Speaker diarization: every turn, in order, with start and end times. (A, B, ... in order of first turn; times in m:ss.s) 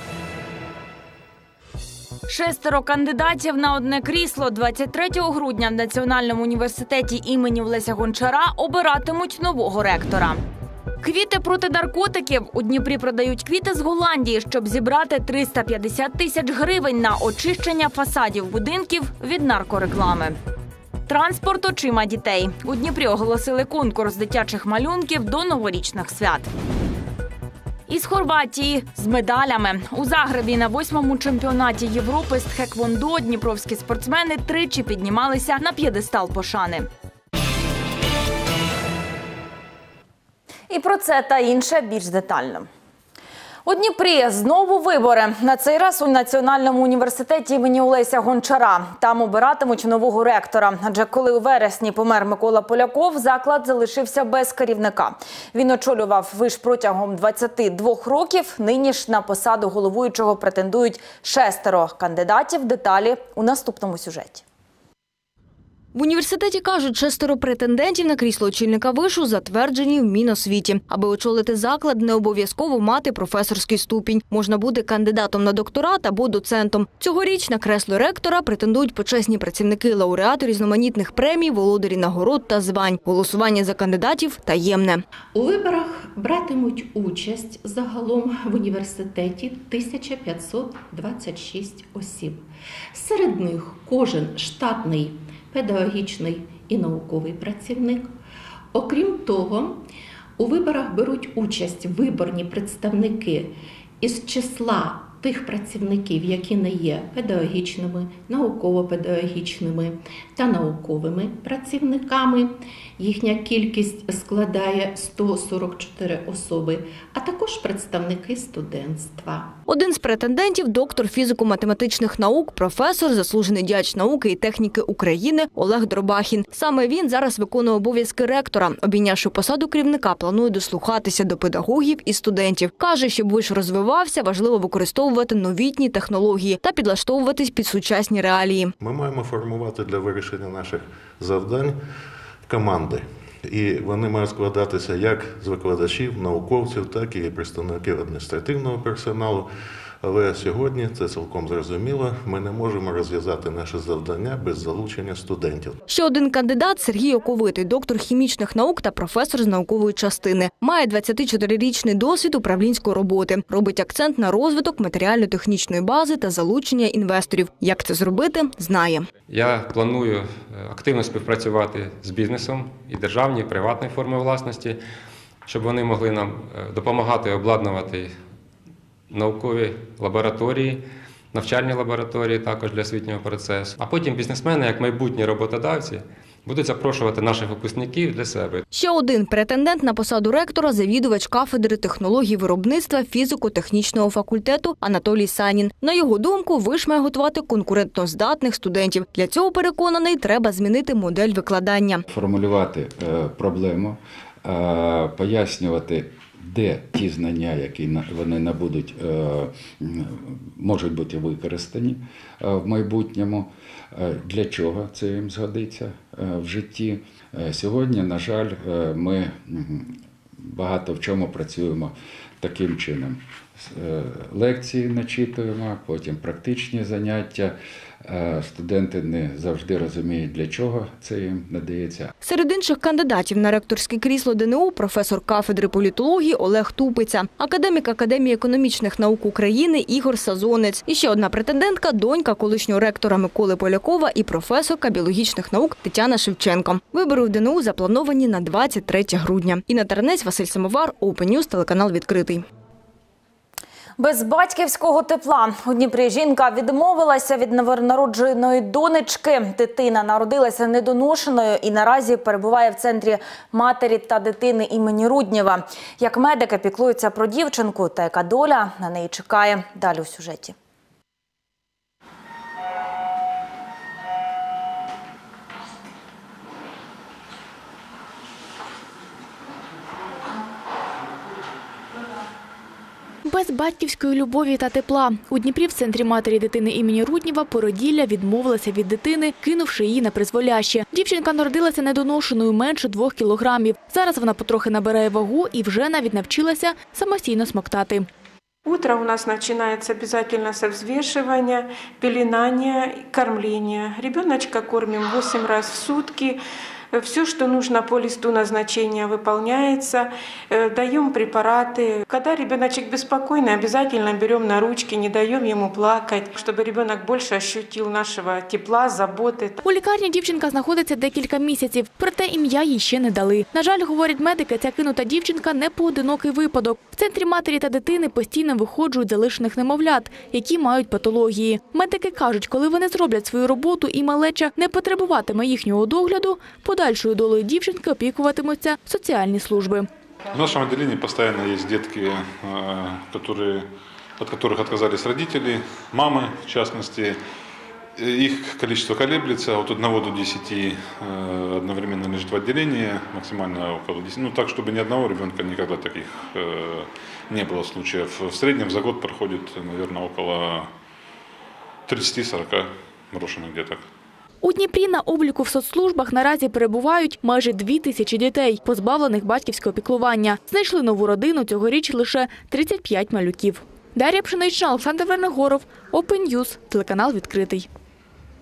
0:02.3-0:10.4 A
0:11.0-0:20.4 A
0:21.1-0:26.5 A
0:27.9-0:36.9 A
0:40.7-0:42.7 A
0:43.6-1:04.4 A
1:05.9-1:25.0 B
1:25.4-1:38.1 C
1:38.7-1:39.8 C
1:40.4-1:59.6 C
1:59.7-2:18.7 B
2:18.8-2:21.8 D
2:22.5-2:29.5 D
2:30.0-2:35.8 D
2:35.9-2:49.1 B
2:49.3-2:54.8 E
2:55.5-2:58.2 E
2:59.1-3:08.6 E
3:08.7-3:22.0 B
3:22.1-3:52.1 F
3:52.2-4:12.4 B
4:14.0-4:30.6 A
4:43.2-4:58.1 G
4:58.7-5:06.4 H
5:06.9-5:19.6 H
5:19.6-5:39.9 G
5:40.3-5:47.2 I
5:48.0-6:00.7 I
6:01.9-6:03.8 I
6:04.4-6:17.7 G